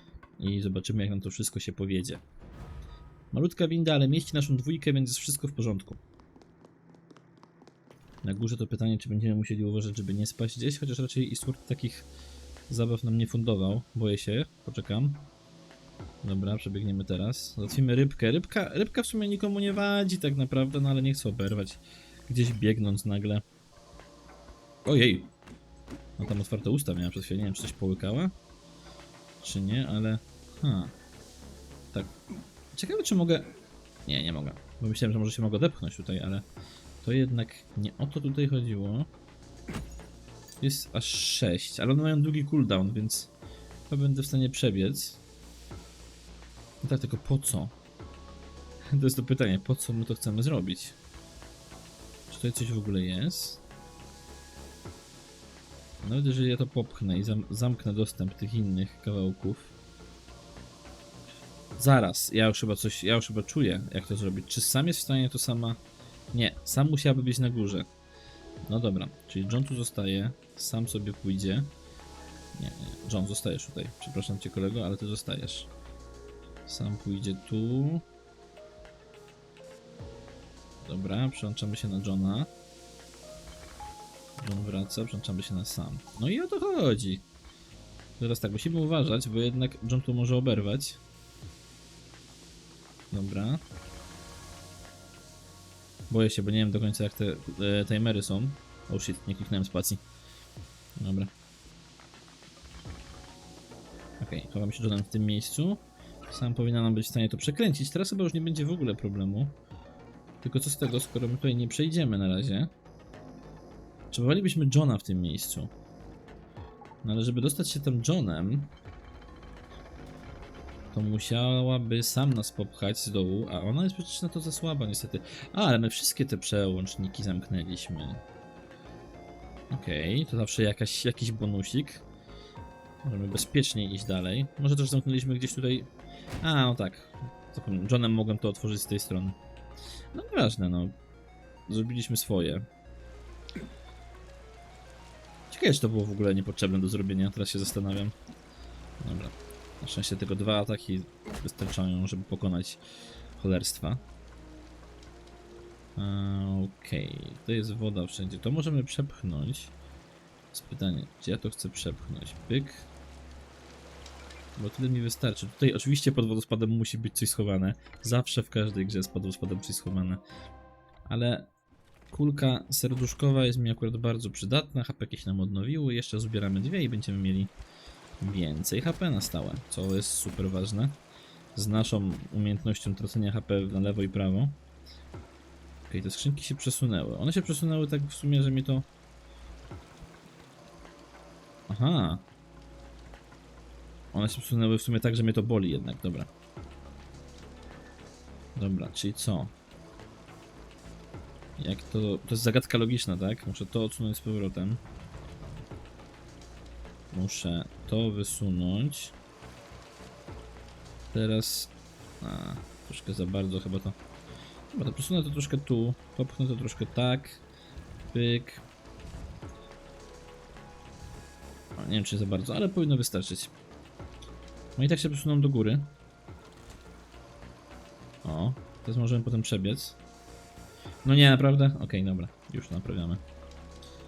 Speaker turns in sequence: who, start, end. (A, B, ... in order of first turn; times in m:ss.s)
0:00.4-0:02.2 A
0:03.3-0:06.0 A
0:08.2-0:12.1 A
0:12.7-0:15.3 A
0:16.2-0:23.4 A
0:24.8-0:25.3 A
0:26.2-0:28.3 A
0:29.4-0:30.9 A
0:32.7-0:33.5 A
0:34.0-0:36.4 A
0:37.0-0:39.1 A
0:40.6-0:43.3 A
0:43.9-0:45.2 A
0:46.8-0:47.7 A
0:48.9-0:51.0 A
0:52.3-0:53.6 A
0:56.0-0:59.7 A
1:01.8-1:05.8 A
1:06.3-1:07.9 A
1:08.7-1:11.7 A
1:12.6-1:15.7 A
1:16.7-1:18.0 A
1:20.8-1:22.5 A
1:24.4-1:27.2 A
1:28.2-1:31.0 A
1:33.1-1:33.6 A
1:36.1-1:40.0 A
1:41.0-1:41.3 A
1:44.2-1:49.6 A
1:50.4-1:52.7 A
1:54.1-1:55.7 A
1:57.0-1:58.7 A
2:00.9-2:08.2 A
2:09.7-2:12.0 A
2:13.0-2:15.9 A
2:16.4-2:19.4 A
2:20.1-2:20.9 A
2:21.7-2:22.6 A
2:25.5-2:28.1 A
2:29.0-2:32.8 A
2:33.4-2:34.0 A
2:36.0-2:39.7 A
2:40.5-2:42.9 A
2:44.6-2:50.2 A
2:51.1-2:51.5 A
2:52.1-2:57.5 A
2:58.2-3:01.0 A
3:01.6-3:04.6 A
3:05.9-3:08.9 A
3:11.7-3:12.2 A
3:14.1-3:16.3 A
3:18.6-3:19.5 A
3:21.6-3:24.8 A
3:27.1-3:29.1 A
3:31.1-3:34.0 A
3:34.7-3:37.4 A
3:38.1-3:38.6 A
3:41.8-3:43.5 A
3:44.8-3:45.9 A
3:48.2-3:50.0 A
3:51.0-3:53.2 A